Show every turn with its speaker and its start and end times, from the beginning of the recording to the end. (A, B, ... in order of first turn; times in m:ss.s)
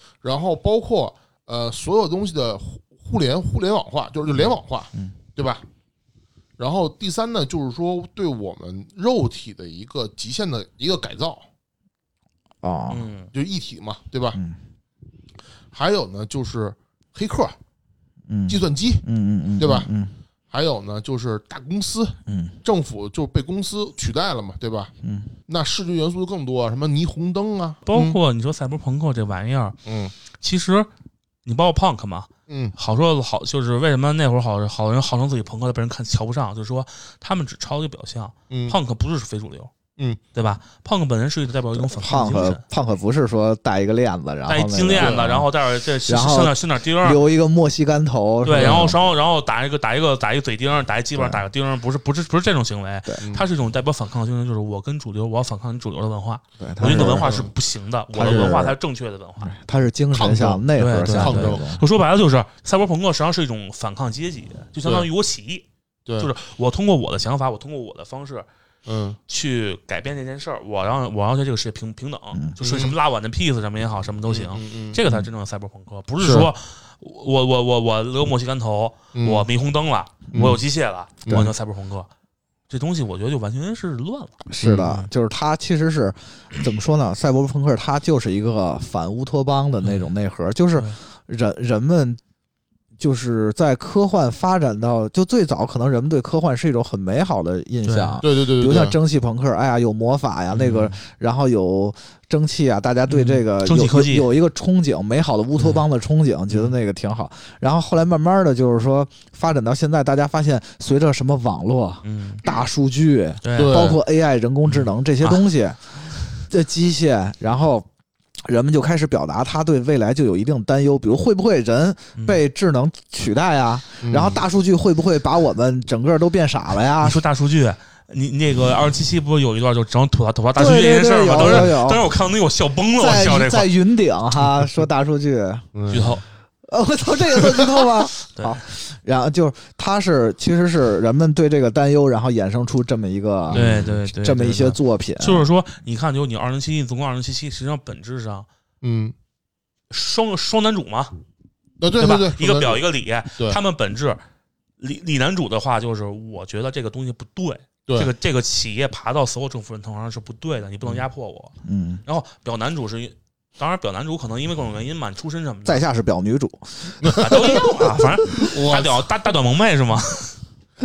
0:00.2-0:05.6 A
0:06.6-0:11.4 A
0:12.6-0:13.1 B
0:12.9-0:13.3 C
0:13.3-0:14.4 A
0:15.7-0:17.6 A
0:18.3-0:20.1 B
0:18.5-0:19.0 A
0:19.6-0:19.9 A
0:20.5-0:24.9 A
0:22.3-0:22.6 B
0:25.0-0:25.4 B
0:25.5-0:28.2 A
0:27.9-0:29.8 C
0:29.9-0:30.1 A
0:30.4-0:30.9 C
0:31.4-0:39.7 C
0:32.5-0:32.8 A
0:38.5-0:38.8 A
0:40.4-0:42.6 C
0:41.7-0:45.5 B
0:44.5-0:47.2 C
0:46.0-0:49.0 B
0:48.4-0:59.5 C
0:48.5-0:48.9 A
0:51.1-0:51.4 B
0:53.2-0:53.5 A
0:56.6-0:57.3 B
0:56.8-0:57.5 A
0:58.1-0:58.8 B
0:58.2-0:58.6 A
0:59.4-1:01.8 B
1:00.1-1:01.6 A
1:00.8-1:05.6 C
1:06.1-1:06.3 A
1:06.2-1:08.5 C
1:08.9-1:09.2 A
1:09.3-1:22.1 C
1:12.6-1:13.0 A
1:14.3-1:15.0 A
1:16.2-1:16.5 A
1:19.1-1:19.5 A
1:20.3-1:20.6 A
1:21.2-1:21.5 A
1:22.7-1:25.1 C
1:24.5-1:32.2 B
1:24.6-1:24.9 A
1:29.8-1:30.1 C
1:33.0-1:55.9 B
1:37.8-1:38.2 C
1:38.2-1:38.9 A
1:40.5-1:41.0 C
1:43.1-1:44.3 C
1:52.0-1:52.4 C
1:53.4-1:53.8 C
1:53.6-1:54.0 A
1:54.7-1:55.4 C
1:56.4-1:57.9 B
1:58.4-2:07.2 B
2:04.0-2:04.4 A
2:07.0-2:13.7 C
2:10.6-2:12.1 B
2:13.0-2:15.6 B
2:15.7-2:16.2 A
2:15.9-2:16.2 C
2:16.7-2:25.5 B
2:18.3-2:18.6 C
2:23.5-2:24.0 A
2:23.5-2:28.5 C
2:28.8-2:29.1 A
2:29.9-2:31.2 C
2:31.8-2:32.8 A
2:32.0-2:34.2 C
2:34.8-2:41.5 C
2:41.6-2:42.0 B
2:42.1-2:45.8 C
2:45.6-2:47.7 B
2:47.0-2:47.6 A
2:47.1-2:50.4 C
2:48.3-2:49.0 A